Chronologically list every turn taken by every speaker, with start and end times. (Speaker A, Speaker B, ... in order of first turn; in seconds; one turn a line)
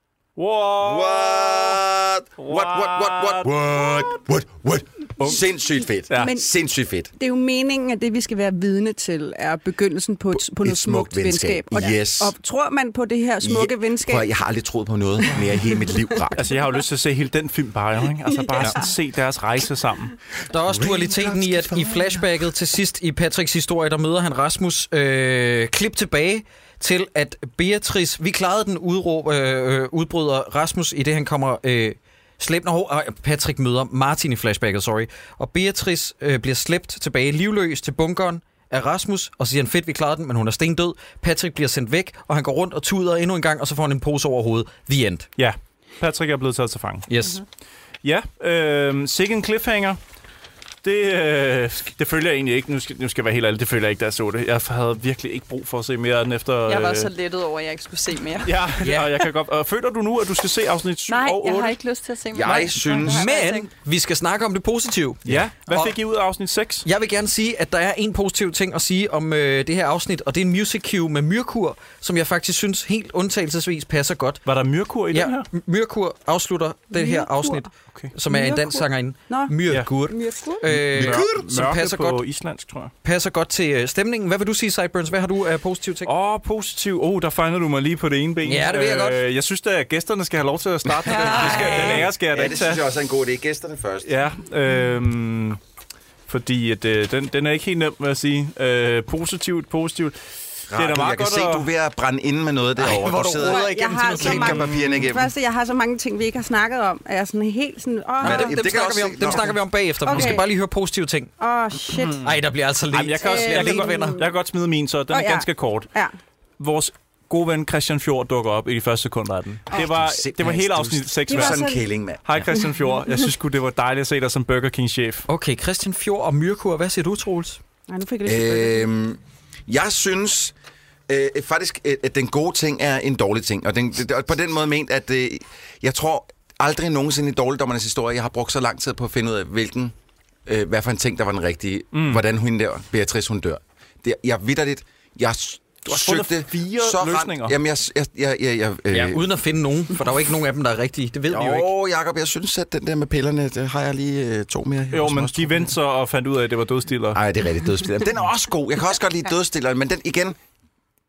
Speaker A: 0.4-1.8
Speaker B: 0.8-7.1
Speaker A: 2.4-4.2
Speaker C: 6.1-6.5
Speaker C: 7.2-14.3
Speaker B: 10.3-12.3
Speaker B: 13.4-16.4
Speaker C: 15.3-15.6
Speaker A: 16.3-20.1
Speaker C: 18.4-18.9
Speaker D: 20.5-45.3
Speaker B: 20.7-22.3
Speaker A: 45.4-47.1
Speaker D: 47.1-47.4
Speaker A: 48.0-50.0
Speaker A: 50.8-57.1
Speaker E: 56.7-58.5
Speaker A: 58.4-61.8
Speaker D: 58.8-59.2
Speaker E: 61.1-63.7
Speaker B: 62.3-63.3
Speaker D: 62.9-65.9
Speaker A: 65.2-66.8
Speaker D: 66.8-74.4
Speaker A: 74.4-75.5
Speaker D: 75.1-82.2
Speaker C: 76.9-77.7
Speaker C: 78.3-79.5
Speaker C: 80.1-80.7
Speaker A: 80.7-82.9
Speaker D: 83.0-86.1
Speaker A: 86.0-92.8
Speaker D: 88.4-89.2
Speaker B: 91.0-94.1
Speaker E: 91.1-92.0
Speaker A: 94.0-95.6
Speaker A: 96.3-101.7
Speaker B: 100.7-105.3
Speaker D: 102.8-104.6
Speaker C: 103.4-108.6
Speaker A: 104.4-105.1
Speaker B: 108.2-109.6
Speaker D: 108.2-111.3
Speaker C: 110.0-110.5
Speaker A: 110.1-110.3
Speaker C: 111.4-112.3
Speaker A: 111.9-112.3
Speaker D: 112.2-114.2
Speaker A: 112.9-115.9
Speaker C: 113.2-114.3
Speaker C: 115.1-116.1
Speaker A: 116.6-121.7
Speaker B: 119.7-122.5
Speaker C: 121.3-121.8
Speaker A: 122.2-125.2
Speaker D: 125.3-127.6
Speaker C: 127.9-128.8
Speaker B: 128.2-130.5
Speaker B: 131.1-139.9
Speaker B: 140.4-149.2
Speaker A: 141.9-142.2
Speaker A: 145.8-147.6
Speaker D: 148.9-151.7
Speaker B: 151.3-155.7
Speaker A: 154.9-157.2
Speaker B: 157.1-160.3